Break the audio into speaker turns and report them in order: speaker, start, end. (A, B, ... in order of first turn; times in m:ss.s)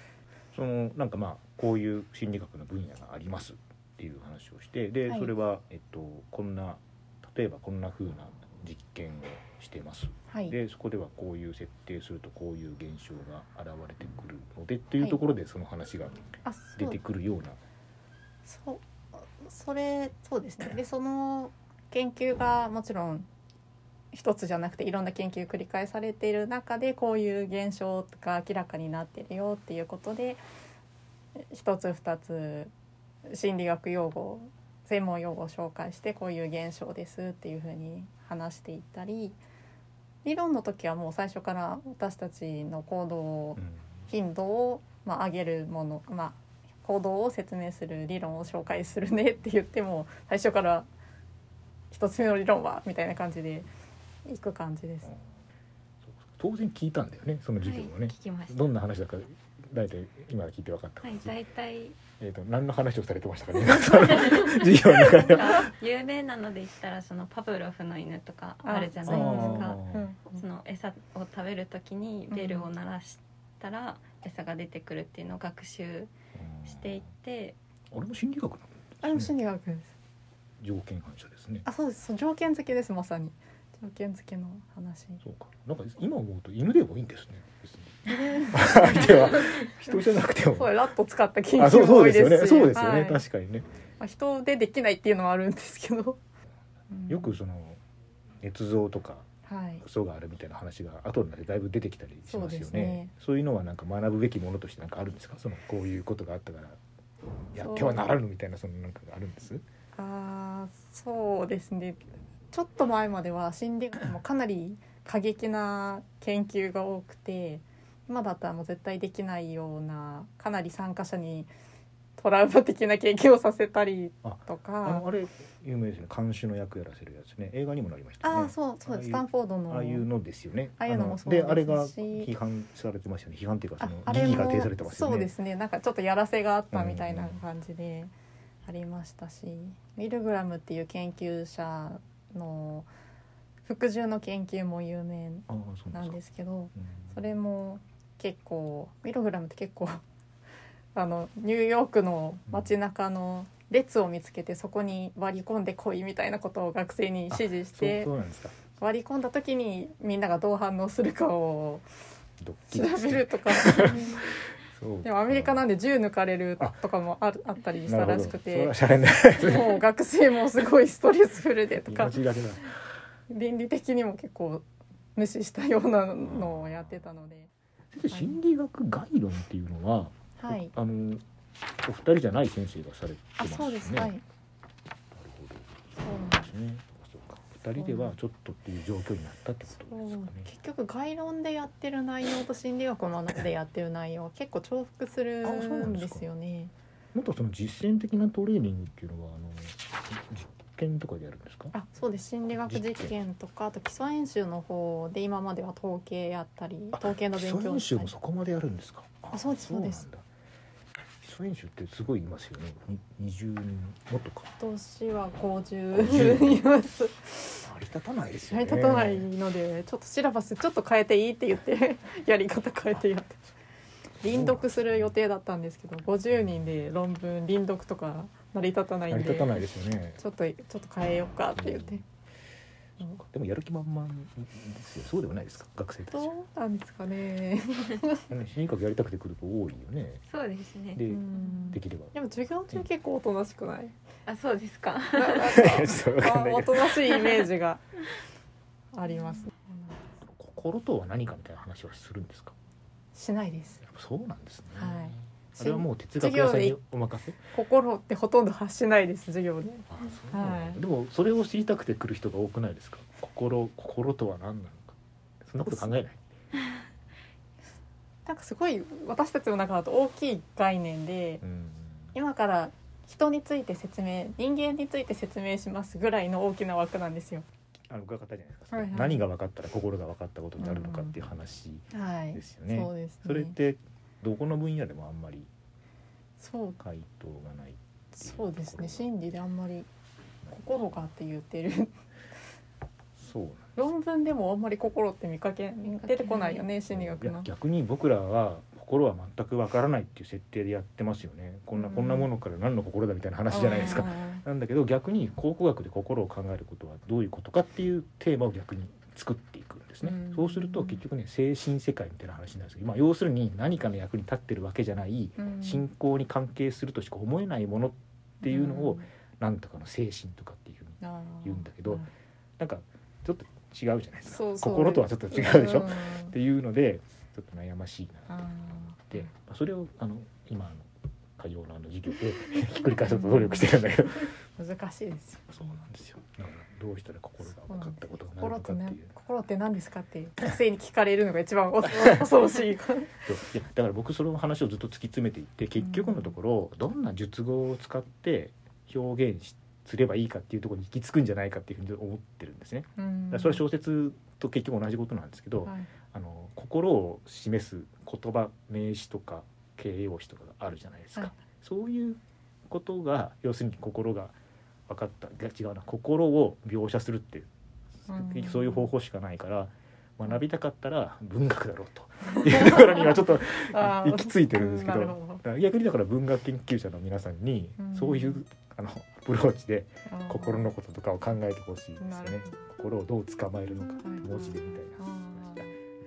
0:00.5-0:17.6 A
0:10.3-0:10.6 B
0:16.4-0:17.0 B
0:18.4-0:23.3 B
0:24.1-0:30.4 B
0:31.4-0:32.7 B
0:33.3-0:39.4 B
0:40.2-0:50.9 B
0:51.9-0:53.7 B
0:54.3-0:55.1 B
0:56.1-1:01.3 A
0:57.6-0:58.6 C
1:01.0-1:02.0 C
1:02.2-1:05.7 A
1:03.9-1:16.1 C
1:08.6-1:10.4 B
1:09.0-1:10.0 A
1:12.3-1:12.7 B
1:16.4-1:17.0 A
1:16.6-1:17.6 C
1:17.9-1:19.3 A
1:19.0-1:19.9 B
1:20.6-1:21.6 A
1:21.6-1:25.2 B
1:25.2-1:30.7 A
1:28.1-1:29.7 B
1:30.5-1:33.2 B
1:31.6-1:33.7 A
1:34.0-1:36.2 B
1:36.9-1:37.3 B
1:37.1-1:37.8 A
1:38.4-1:39.3 A
1:39.5-1:39.8 B
1:39.8-1:46.8 A
1:42.3-1:43.1 B
1:47.5-1:49.6 A
1:47.6-1:48.0 B
1:50.0-2:01.5 B
2:02.2-2:05.1 B
2:04.2-2:15.3 A
2:08.2-2:10.1 B
2:10.8-2:12.3 B
2:13.8-2:18.1 B
2:16.7-2:17.4 A
2:18.6-2:22.9 B
2:23.6-2:30.0 B
2:25.5-2:26.2 A
2:26.8-2:27.2 A
2:31.0-2:38.1 B
2:37.3-2:38.6 A
2:38.8-2:41.8 B
2:42.4-2:45.6 A
2:42.7-2:44.3 B
2:45.0-2:48.8 B
2:47.9-2:49.8 A
2:49.4-2:52.2 B
2:51.9-2:52.8 A
2:53.3-2:54.6 B
2:55.2-2:57.5 B
2:56.3-2:56.7 A
2:57.9-3:01.2 A
2:58.1-2:58.4 B
3:00.4-3:00.7 B
3:01.8-3:04.1 A
3:03.4-3:04.2 B
3:05.1-3:10.5 A
3:06.0-3:06.5 B
3:07.8-3:08.1 B
3:09.7-3:16.7 B
3:15.4-3:16.3 A
3:17.1-3:21.7 A
3:21.7-3:28.1 B
3:22.5-3:23.1 A
3:26.9-3:30.2 A
3:29.3-3:30.0 B
3:31.2-3:34.5 A
3:34.6-3:37.6 B
3:35.9-3:36.6 A
3:37.6-3:39.3 A
3:38.5-3:43.5 B
3:44.2-3:49.6 B
3:44.2-3:45.1 A
3:46.3-3:46.7 A
3:49.1-3:50.2 A
3:50.2-3:52.0 B
3:51.5-3:52.0 A
3:53.0-3:56.3 A
3:56.1-3:58.3 B
3:58.3-4:00.2 A
4:00.3-4:01.0 C
4:00.9-4:02.2 A
4:01.1-4:04.0 B
4:04.3-4:05.5 C
4:05.1-4:07.8 B
4:05.4-4:07.0 A
4:08.9-4:10.0 B
4:10.2-4:12.6 A
4:13.2-4:13.8 B
4:13.8-4:17.4 A
4:14.8-4:16.8 B
4:17.5-4:20.8 B
4:19.9-4:26.2 A
4:28.3-4:31.4 B
4:31.4-4:32.1 A
4:32.1-4:37.5 B
4:37.9-4:45.5 A
4:38.7-4:39.3 B
4:40.6-4:41.1 B
4:41.9-4:43.6 B
4:46.4-4:46.8 B
4:46.8-4:49.1 A
4:48.2-4:49.9 B
4:50.5-4:52.0 B
4:53.2-4:53.9 A
4:53.8-4:57.5 B
4:56.0-4:56.7 C
4:56.9-5:22.0 A
5:01.8-5:02.3 B
5:03.5-5:04.4 B
5:10.0-5:11.0 B
5:15.4-5:15.8 B
5:18.4-5:19.1 B
5:21.0-5:22.1 B
5:22.6-5:34.3 A
5:24.3-5:26.3 B
5:28.3-5:29.3 B
5:33.1-5:33.7 B
5:34.6-5:35.7 B
5:35.5-5:39.1 A
5:37.7-5:43.2 B
5:43.2-6:04.4 A
5:45.8-5:46.3 B
5:53.0-5:53.6 B
5:55.6-5:55.9 B
6:04.9-6:07.5 A
6:08.1-6:25.7 A
6:08.1-6:08.8 B
6:12.3-6:15.4 B
6:17.8-6:18.4 B
6:20.1-6:20.7 B
6:22.0-6:22.6 B
6:24.0-6:25.8 B